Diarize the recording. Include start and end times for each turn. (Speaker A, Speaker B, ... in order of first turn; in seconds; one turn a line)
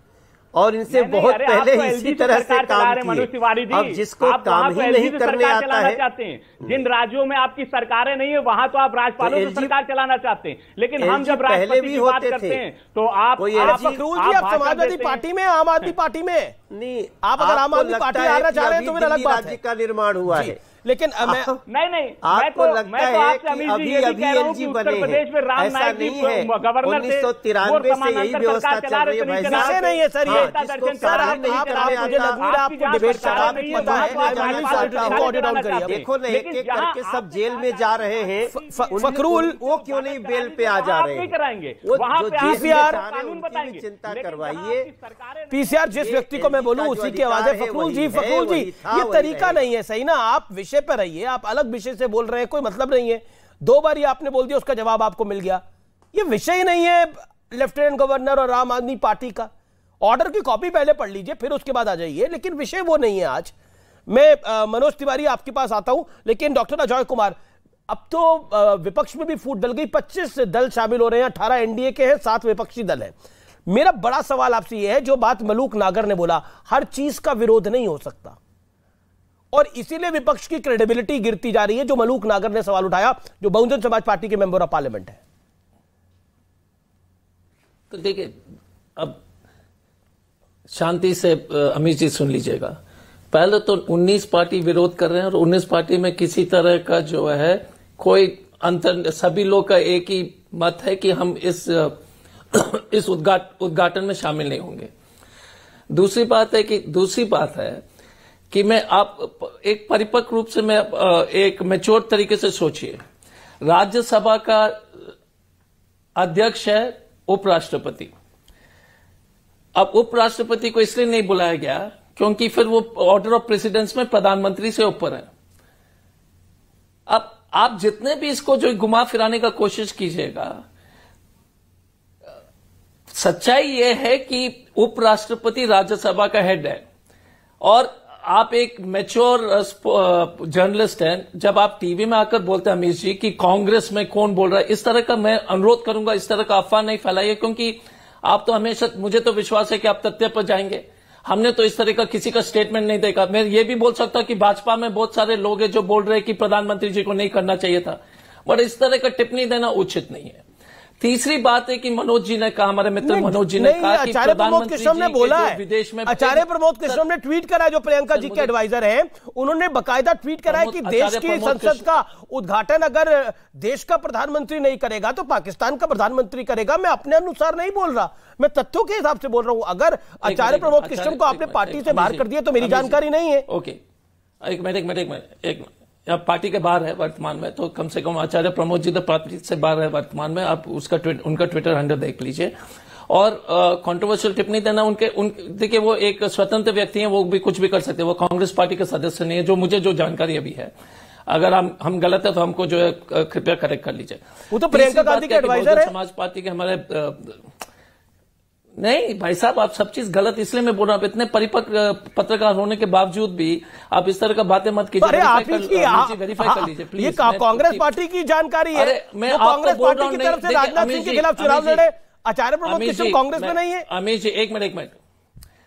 Speaker A: 0.6-6.0
Speaker B: 0.9-15.2
Speaker A: 9.2-9.8
Speaker A: 11.0-12.6
Speaker A: 13.4-14.0
Speaker C: 13.6-16.6
Speaker A: 16.7-20.6
Speaker C: 17.2-19.6
Speaker C: 20.3-21.5
Speaker A: 21.2-21.6
Speaker B: 21.7-46.2
Speaker A: 22.2-32.4
Speaker C: 29.4-36.0
Speaker A: 32.9-44.9
Speaker C: 38.5-39.6
Speaker C: 42.4-43.0
Speaker C: 45.5-59.5
Speaker A: 46.0-49.6
Speaker C: 60.0-63.5
Speaker C: 64.1-67.4
Speaker C: 67.9-73.2
Speaker C: 73.7-78.4
Speaker C: 79.5-85.2
Speaker D: 87.9-88.3
Speaker D: 90.7-92.8
Speaker D: 93.3-102.0
Speaker D: 102.5-104.9
Speaker D: 105.9-107.8
Speaker D: 108.5-113.0
Speaker D: 113.6-115.1
Speaker D: 116.2-118.1
Speaker D: 119.8-125.3
Speaker D: 127.1-130.6
Speaker D: 133.1-136.8
Speaker D: 137.6-160.4
Speaker D: 161.0-167.0
Speaker C: 163.0-183.5
Speaker D: 168.1-168.5
Speaker D: 170.5-172.0
Speaker D: 180.2-183.8
Speaker D: 184.4-192.5
Speaker D: 193.1-200.7
Speaker D: 201.3-207.4
Speaker C: 204.5-205.9
Speaker D: 208.8-217.9
Speaker C: 215.0-223.9
Speaker D: 218.7-221.9
Speaker D: 222.7-225.0